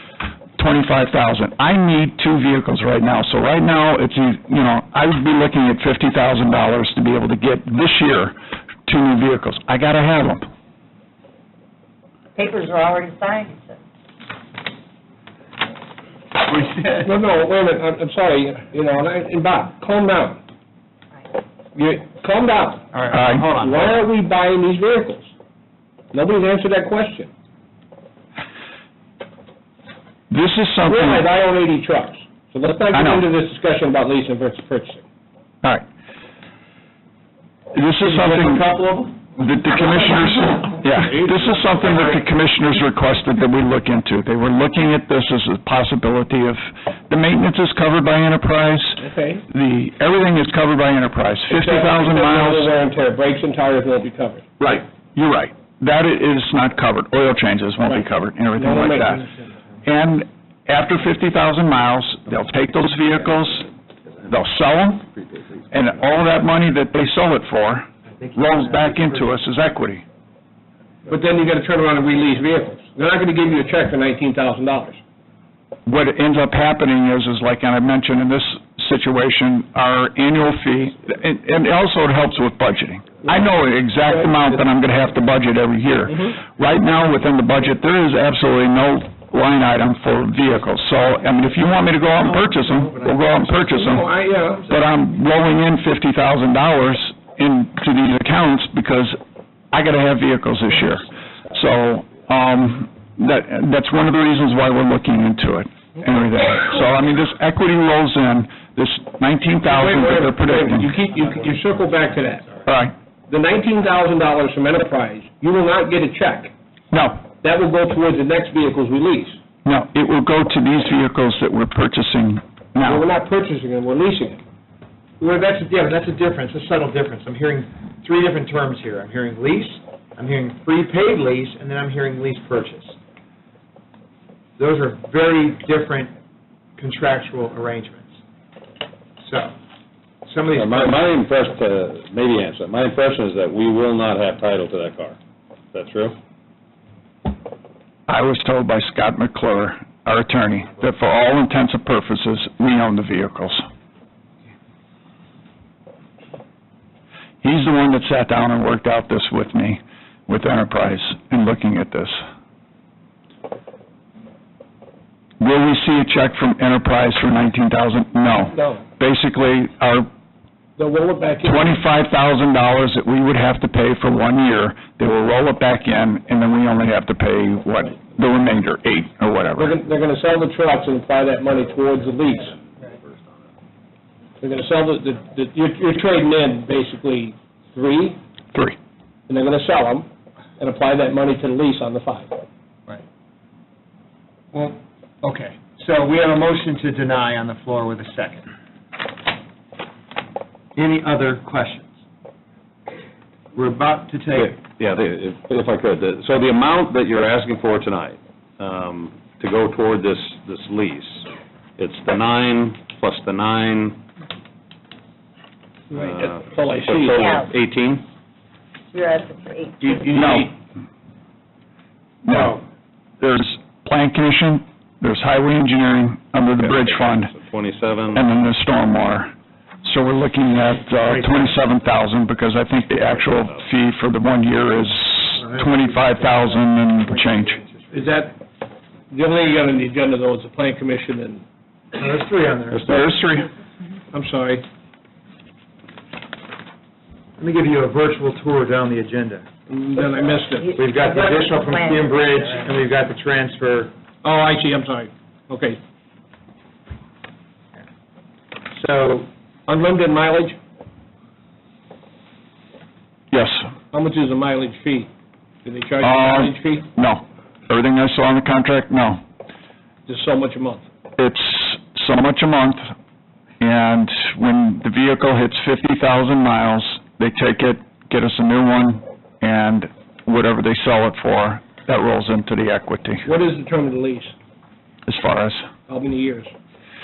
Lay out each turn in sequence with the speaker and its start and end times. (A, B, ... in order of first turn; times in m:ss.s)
0:00.6-0:10.5 A
0:12.3-0:13.8 B
0:16.4-0:17.1 C
0:16.9-0:20.4 D
0:21.8-0:23.0 D
0:22.9-0:24.0 C
0:23.1-0:23.5 A
0:23.5-0:25.3 D
0:26.1-0:27.3 D
0:30.3-0:31.3 A
0:30.8-0:35.0 D
0:32.9-0:33.2 A
0:37.7-0:38.6 A
0:38.0-0:39.3 C
0:39.3-0:52.7 A
0:40.5-0:41.1 C
0:49.0-0:49.4 D
0:51.5-0:54.5 D
0:54.6-0:59.3 A
0:58.6-0:59.4 D
0:59.8-1:03.7 A
1:04.3-1:05.0 A
1:05.7-1:10.0 A
1:08.0-1:09.3 C
1:11.1-1:15.0 D
1:15.8-1:34.1 A
1:23.1-1:24.6 D
1:32.2-1:33.9 C
1:33.7-1:34.7 D
1:34.7-1:39.2 A
1:39.7-1:50.9 A
1:49.6-1:52.5 D
1:51.1-1:51.9 C
1:52.6-1:52.9 A
1:53.3-1:56.5 D
1:56.9-1:57.2 A
1:57.4-1:59.4 D
1:59.6-2:03.1 A
2:02.8-2:04.4 D
2:05.2-2:13.0 C
2:14.6-2:16.1 C
2:16.8-2:18.1 C
2:19.2-2:19.5 C
2:20.2-2:21.1 C
2:20.5-2:25.2 E
2:20.8-2:22.7 D
2:25.7-2:26.2 E
2:28.1-2:33.6 A
2:37.4-2:42.2 A
2:45.4-2:50.1 A
2:48.5-2:48.8 D
2:50.8-2:51.8 D
2:51.4-2:59.7 A
2:59.5-3:03.0 D
3:01.5-3:02.5 E
3:04.4-3:08.2 D
3:09.3-3:10.1 D
3:10.6-3:12.3 D
3:14.5-3:18.5 C
3:20.7-3:21.9 C
3:23.5-3:24.6 C
3:24.4-3:31.0 E
3:26.0-3:26.4 D
3:29.4-3:31.2 D
3:31.8-3:33.0 D
3:32.4-3:34.0 E
3:35.9-3:37.4 D
3:36.0-3:38.0 E
3:37.1-3:37.5 B
3:38.9-3:40.3 B
3:39.9-3:40.5 D
3:40.1-3:40.5 A
3:42.2-3:42.6 A
3:42.3-3:42.6 C
3:43.2-3:47.3 A
3:46.9-3:48.2 D
3:47.4-3:48.2 E
3:48.1-3:49.3 A
3:49.8-3:57.6 A
3:51.0-3:51.5 C
3:53.0-3:53.7 D
3:55.4-3:58.3 C
3:57.9-3:58.4 D
3:59.1-4:01.4 D
4:01.9-4:03.0 C
4:02.7-4:03.5 A
4:04.1-4:04.6 D
4:07.4-4:09.4 C
4:09.7-4:10.7 D
4:10.0-4:12.8 B
4:10.7-4:13.9 C
4:14.2-4:15.8 D
4:18.7-4:19.3 C
4:19.7-4:20.6 D
4:23.3-4:23.7 A
4:23.9-4:25.1 D
4:25.6-4:26.9 D
4:26.0-4:29.2 A
4:30.0-4:30.9 D
4:31.2-4:32.9 A
4:33.6-4:43.3 A
4:43.2-4:44.3 D
4:45.0-4:45.7 A
4:45.9-4:46.5 D